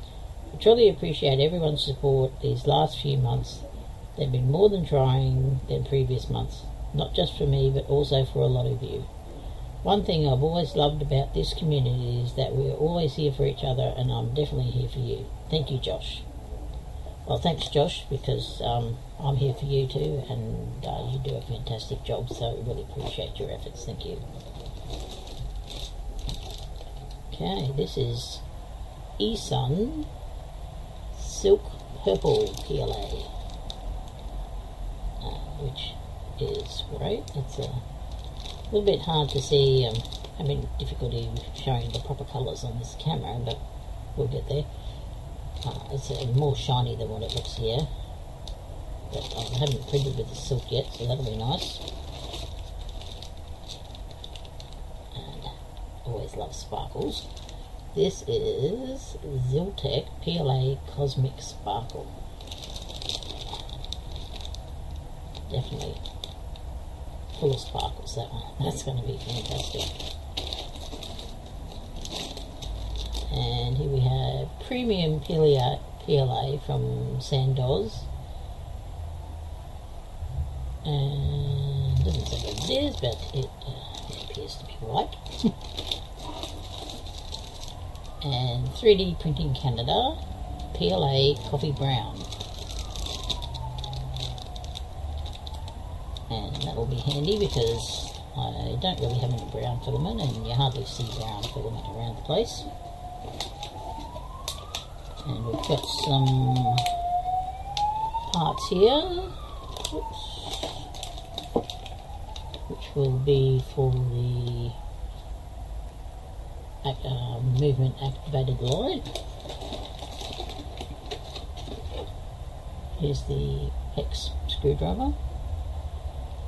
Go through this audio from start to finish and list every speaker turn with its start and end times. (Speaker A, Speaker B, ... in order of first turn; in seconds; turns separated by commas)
Speaker A: 0.5-3.6, Speaker A: 4.2-9.1, Speaker A: 9.8-16.3, Speaker A: 17.3-24.2, Speaker A: 27.3-28.4, Speaker A: 29.2-30.1, Speaker A: 31.1-33.3, Speaker A: 35.2-37.8, Speaker A: 38.7-43.6, Speaker A: 44.1-44.7, Speaker A: 45.6-47.9, Speaker A: 49.1-51.8, Speaker A: 55.1-57.3, Speaker A: 57.9-62.1, Speaker A: 65.5-66.0, Speaker A: 67.3-69.9, Speaker A: 73.3-78.1, Speaker A: 80.8-85.2, Speaker A: 88.2-90.2, Speaker A: 90.7-92.3, Speaker A: 96.3-102.7, Speaker A: 105.2-106.9, Speaker A: 108.3-110.9, Speaker A: 112.7-114.8, Speaker A: 116.8-119.1, Speaker A: 123.0-125.2